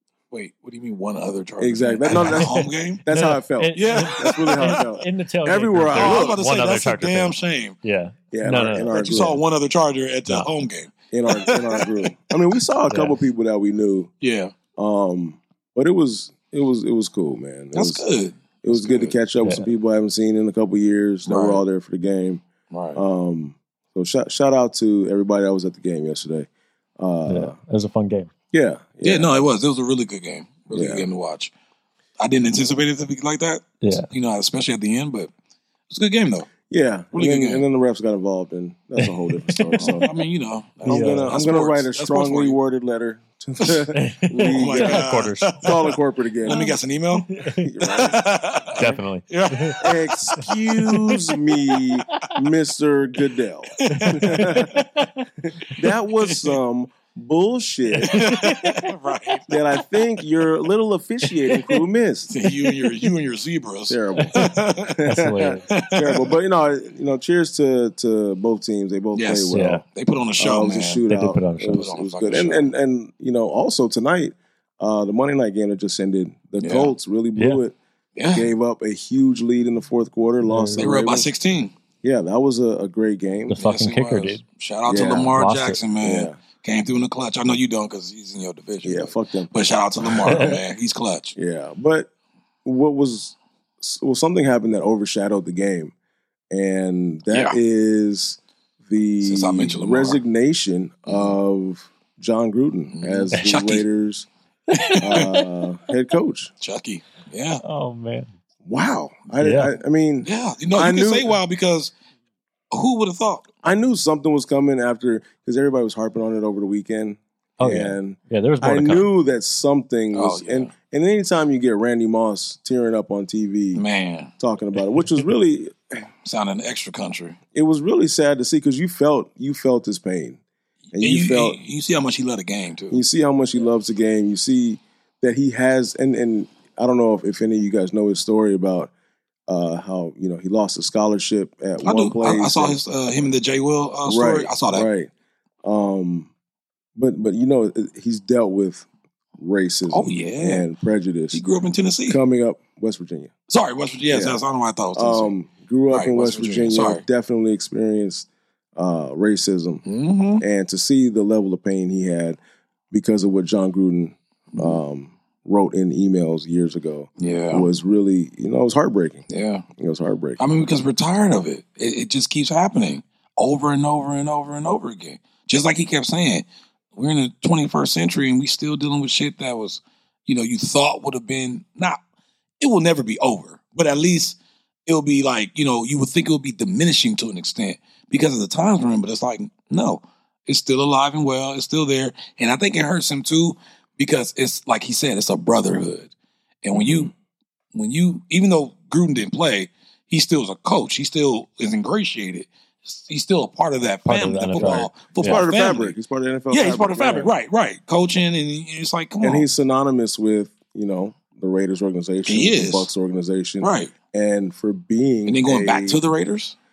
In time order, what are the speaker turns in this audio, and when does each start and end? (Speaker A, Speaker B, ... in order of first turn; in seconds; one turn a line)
Speaker A: 0.3-3.0
Speaker B: 1.6-6.3
Speaker C: 2.1-9.3
Speaker A: 3.7-4.8
Speaker A: 5.9-7.8
Speaker B: 8.3-9.4
Speaker A: 8.9-11.9
Speaker B: 11.1-14.1
Speaker C: 12.9-13.2
Speaker A: 14.2-14.5
Speaker B: 14.8-18.0
Speaker A: 17.7-19.1
Speaker B: 18.6-22.4
Speaker C: 19.4-19.7
Speaker A: 21.2-21.6
Speaker A: 22.7-23.0
Speaker B: 22.9-26.5
Speaker B: 27.0-27.6
Speaker C: 27.3-28.3
Speaker B: 28.5-29.4
Speaker A: 29.0-31.5
Speaker B: 30.7-31.1
Speaker A: 32.2-35.3
Speaker C: 33.8-34.1
Speaker A: 35.9-36.5
Speaker B: 36.7-40.1
Speaker A: 37.1-37.6
Speaker C: 39.3-40.0
Speaker A: 39.8-42.6
Speaker B: 40.8-46.6
Speaker C: 40.9-41.3
Speaker C: 43.9-45.9
Speaker A: 44.4-45.9
Speaker A: 46.4-47.3
Speaker C: 46.5-46.8
Speaker C: 47.3-47.7
Speaker B: 47.5-48.2
Speaker A: 47.8-51.0
Speaker C: 48.8-49.8
Speaker B: 49.8-54.8
Speaker A: 53.8-54.7
Speaker C: 53.9-55.7
Speaker B: 55.4-58.3
Speaker A: 56.2-56.6
Speaker A: 58.0-59.6
Speaker C: 58.0-58.8
Speaker B: 59.5-62.3
Speaker A: 62.3-65.0
Speaker B: 63.9-69.8
Speaker C: 65.0-65.7
Speaker A: 65.7-66.3
Speaker A: 69.1-71.0
Speaker C: 69.5-69.8
Speaker B: 70.4-77.8
Speaker C: 71.1-71.9
Speaker A: 71.7-72.7
Speaker A: 76.6-76.9
Speaker A: 78.2-78.5
Speaker B: 78.3-81.3
Speaker C: 80.5-80.9
Speaker A: 80.8-81.7
Speaker B: 82.0-83.6
Speaker C: 83.5-85.8
Speaker A: 83.5-91.3
Speaker B: 84.9-85.4
Speaker B: 86.0-86.4
Speaker B: 88.8-89.5
Speaker C: 90.2-90.6
Speaker B: 91.3-92.1
Speaker B: 92.6-95.9
Speaker B: 96.5-104.3
Speaker A: 97.3-97.6
Speaker A: 99.2-100.2
Speaker A: 101.1-101.4
Speaker A: 102.9-103.8
Speaker C: 104.7-105.5
Speaker A: 104.7-105.3
Speaker B: 105.0-106.5
Speaker A: 106.6-107.6
Speaker C: 107.6-108.3
Speaker B: 108.7-111.3
Speaker C: 109.4-109.7
Speaker A: 110.2-111.9
Speaker A: 112.7-113.5
Speaker B: 113.6-123.8
Speaker C: 117.6-119.1
Speaker A: 120.1-120.7
Speaker A: 123.7-124.3
Speaker B: 124.4-126.0
Speaker A: 126.2-127.4
Speaker B: 127.5-130.4
Speaker B: 130.9-131.6
Speaker A: 131.0-133.0
Speaker B: 132.9-138.9
Speaker B: 139.5-142.8
Speaker A: 141.8-144.9
Speaker B: 144.1-145.1
Speaker B: 145.6-146.3
Speaker B: 146.9-148.9
Speaker B: 149.4-151.4
Speaker A: 149.9-150.7
Speaker A: 151.3-152.2
Speaker B: 152.1-153.3
Speaker A: 153.5-155.3
Speaker B: 154.1-154.4
Speaker B: 154.9-159.8
Speaker A: 155.9-157.0
Speaker A: 159.8-160.4
Speaker B: 160.4-162.4
Speaker B: 162.9-170.5
Speaker A: 164.5-164.8
Speaker A: 167.2-167.7
Speaker A: 169.3-169.7
Speaker A: 170.4-182.0
Speaker A: 182.6-196.1
Speaker A: 196.6-197.1
Speaker A: 197.7-205.9
Speaker C: 204.1-205.4
Speaker B: 204.6-207.3
Speaker A: 206.5-209.5
Speaker B: 209.2-216.0
Speaker A: 212.2-212.9
Speaker A: 213.6-213.9
Speaker A: 215.2-216.6